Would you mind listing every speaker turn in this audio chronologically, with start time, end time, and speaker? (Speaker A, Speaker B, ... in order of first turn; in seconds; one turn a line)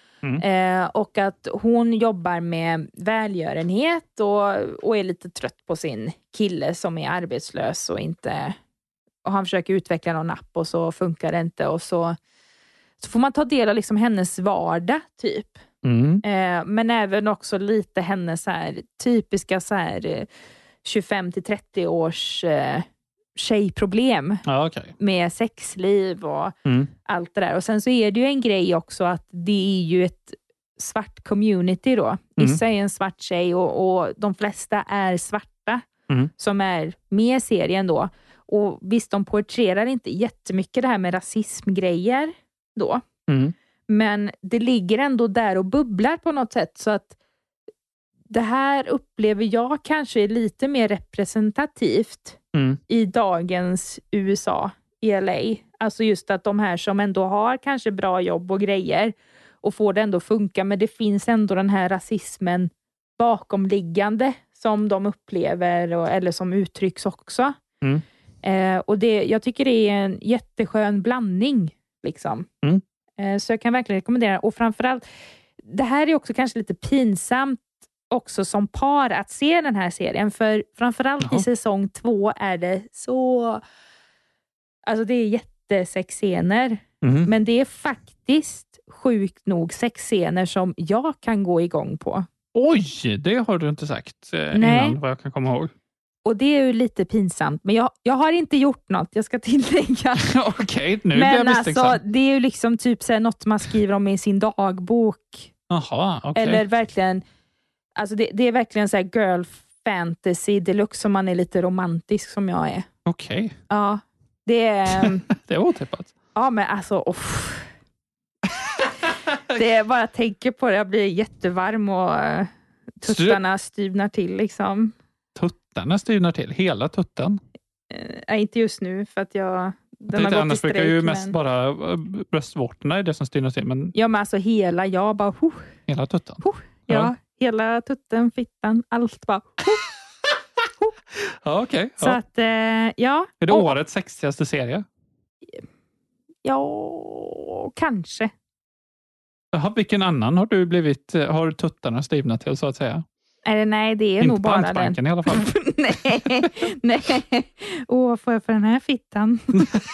Speaker A: 0.4-8.6
Speaker A: 9.2-12.2
Speaker A: 13.0-15.6
Speaker B: 15.8-16.2
Speaker A: 16.2-20.3
Speaker A: 20.8-24.4
Speaker B: 24.4-24.9
Speaker A: 25.0-26.5
Speaker B: 26.6-26.9
Speaker A: 27.1-35.9
Speaker A: 36.4-43.0
Speaker B: 43.3-43.5
Speaker A: 43.9-47.1
Speaker A: 48.3-67.6
Speaker B: 52.5-52.8
Speaker A: 68.4-72.5
Speaker A: 73.2-75.0
Speaker A: 75.6-83.6
Speaker B: 81.2-81.5
Speaker A: 84.8-92.2
Speaker B: 87.0-87.3
Speaker B: 92.5-95.7
Speaker A: 94.5-95.0
Speaker A: 96.2-100.3
Speaker B: 100.2-102.0
Speaker A: 101.1-105.5
Speaker B: 105.7-106.6
Speaker A: 106.3-107.2
Speaker A: 108.0-112.9
Speaker B: 113.0-113.5
Speaker A: 113.7-115.2
Speaker B: 114.9-116.1
Speaker A: 116.3-117.7
Speaker A: 119.5-124.9
Speaker B: 123.0-123.4
Speaker B: 125.3-127.4
Speaker A: 127.9-131.3
Speaker B: 130.1-133.9
Speaker A: 133.9-135.7
Speaker B: 135.9-137.1
Speaker A: 136.4-139.8
Speaker B: 141.3-142.2
Speaker A: 142.0-143.8
Speaker B: 143.4-144.8
Speaker A: 146.4-148.3
Speaker B: 149.5-153.0
Speaker A: 153.4-159.7
Speaker B: 154.2-155.5
Speaker B: 159.5-159.8